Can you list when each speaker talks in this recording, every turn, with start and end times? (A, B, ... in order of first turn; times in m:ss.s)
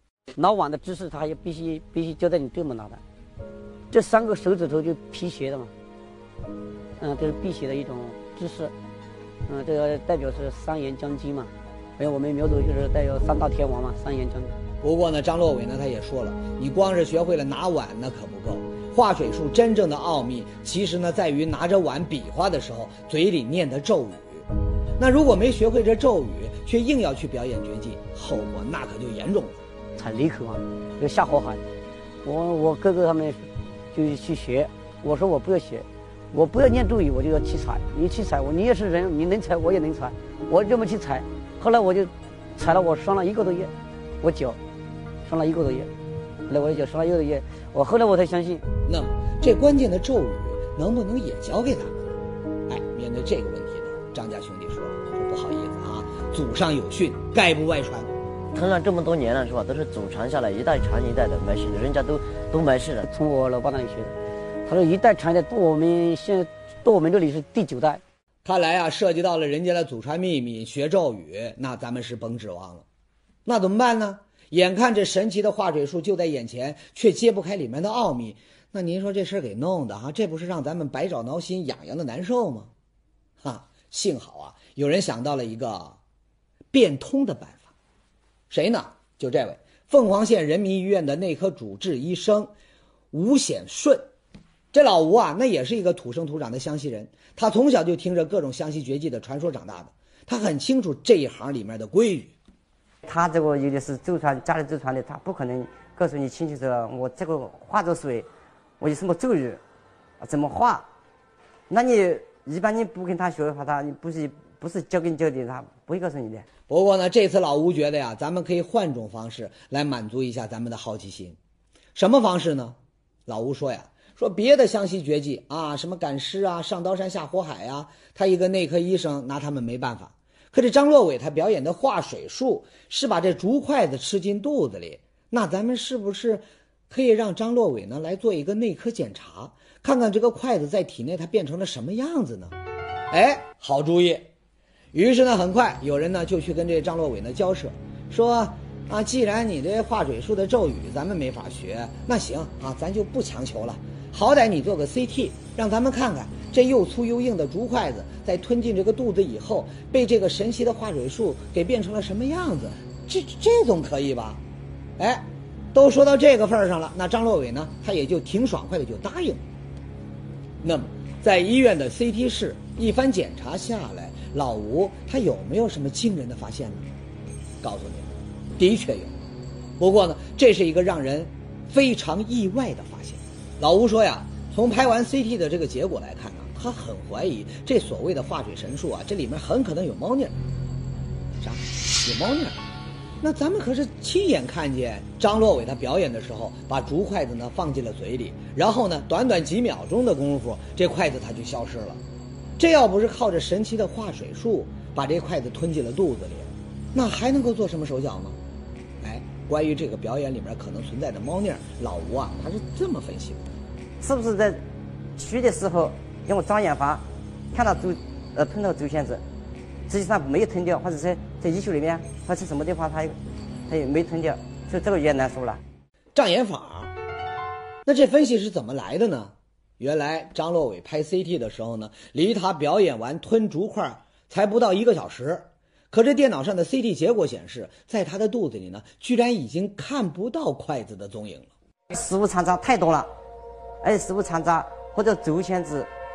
0:00.4-0:03.0 A
0:03.9-0:05.7 A
0:07.0-0:08.7 A
0:09.5-0:14.5 A
0:14.8-0:24.5 B
0:25.0-0:29.6 B
0:30.0-0:31.6 A
0:32.2-0:43.7 A
0:44.2-0:44.6 A
0:45.2-0:45.9 A
0:46.5-0:48.6 A
0:48.9-0:52.2 B
0:52.7-0:58.1 B
0:58.5-1:03.1 C
1:03.1-1:08.0 A
1:08.4-1:12.8 B
1:13.4-1:22.7 B
1:23.4-1:26.0 B
1:26.7-1:27.7 B
1:28.5-1:32.5 B
1:33.1-1:34.0 B
1:34.7-1:42.3 B
1:43.0-1:48.3 D
1:48.8-1:49.6 D
1:50.2-1:50.8 D
1:51.7-1:56.4 D
1:56.7-2:01.4 B
2:01.9-2:02.8 B
2:03.3-2:22.5 B
2:23.1-2:24.3 B
2:24.9-2:44.4 B
2:45.0-2:49.4 B
2:50.6-2:56.8 B
2:57.6-2:59.1 B
2:59.8-3:10.4 B
3:11.4-3:12.6 B
3:13.2-3:22.0 B
3:22.6-3:28.4 B
3:29.0-3:33.5 B
3:34.0-3:34.6 D
3:35.2-3:39.2 D
3:39.9-3:43.2 D
3:43.7-3:45.6 D
3:46.1-3:46.9 B
3:47.8-4:01.5 B
4:01.9-4:03.1 D
4:03.8-4:05.9 D